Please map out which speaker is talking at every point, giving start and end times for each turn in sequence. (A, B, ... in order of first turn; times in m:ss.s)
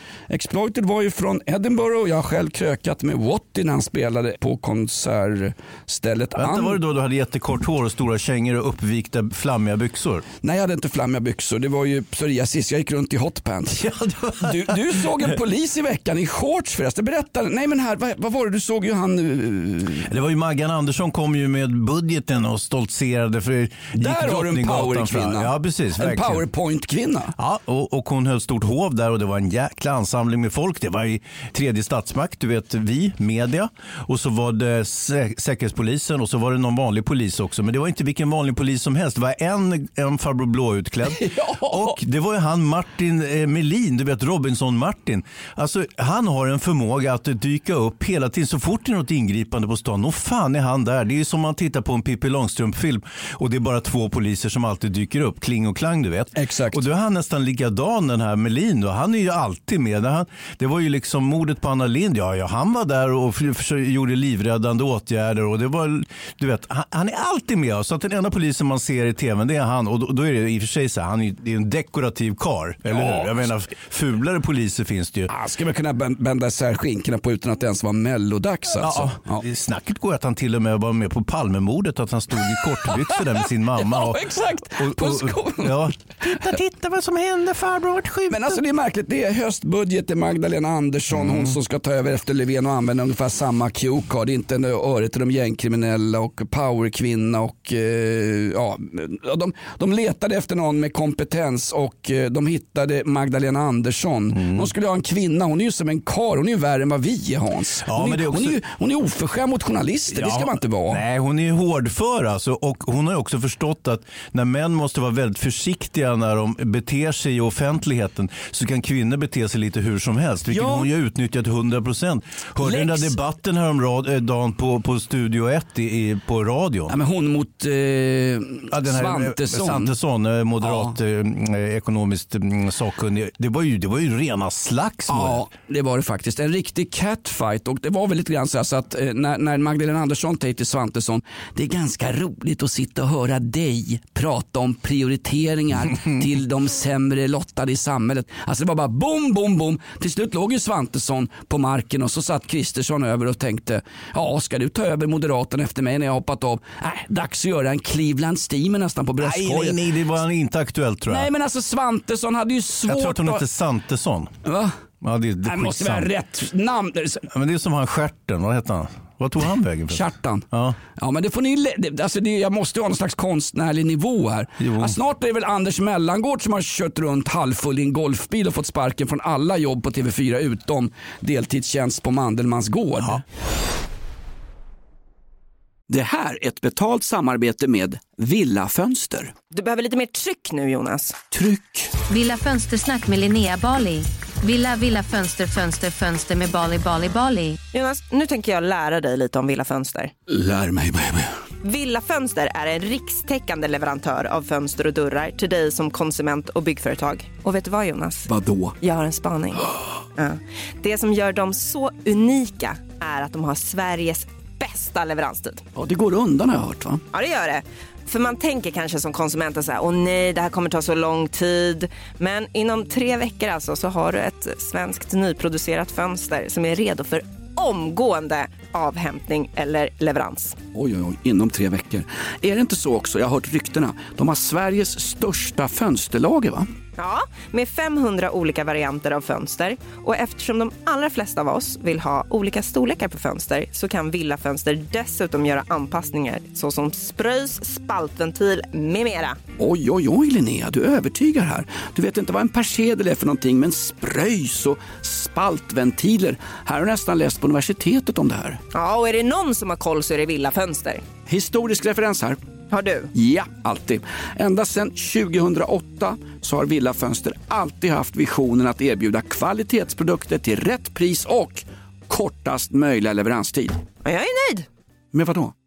0:00.3-0:06.8 A
0:06.4-0:10.2 B
0:10.4-0:20.1 A
0:13.8-0:15.3 B
0:20.1-0:26.5 B
0:24.0-0:27.3 A
0:27.4-1:15.3 B
0:41.2-0:41.9 A
0:56.4-0:56.8 A
1:12.9-1:13.3 A
1:15.3-1:19.4 A
1:18.8-1:28.6 B
1:22.8-1:25.9 A
1:28.3-1:51.0 A
1:31.1-1:31.6 B
1:44.3-1:44.7 B
1:47.9-1:48.6 B
1:50.1-2:06.9 B
2:00.5-2:00.9 A
2:02.6-2:03.1 A
2:06.9-2:09.9 A
2:08.7-2:15.4 B
2:10.6-2:11.0 A
2:15.1-2:39.8 A
2:39.2-2:41.3 B
2:41.1-2:43.4 A
2:42.9-2:44.3 B
2:44.4-2:44.7 A
2:45.0-2:46.1 B
2:45.4-2:47.3 A
2:47.3-2:50.8 B
2:49.9-3:03.2 A
2:54.6-2:55.0 B
3:05.9-3:09.3 A
3:09.5-3:11.2 C
3:11.3-3:11.9 A
3:12.1-3:17.6 D
3:17.7-3:20.1 C
3:20.3-3:21.3 A
3:21.6-3:35.7 C
3:28.3-3:28.8 A
3:35.8-3:37.0 A
3:37.1-3:50.6 C
3:50.8-3:56.7 A
3:57.0-4:09.4 C
4:09.6-4:18.6 A
4:18.7-4:21.0 C
4:21.3-4:22.4 A
4:22.7-4:23.1 C
4:23.1-4:33.8 A
4:34.0-4:34.7 C
4:35.1-4:35.5 A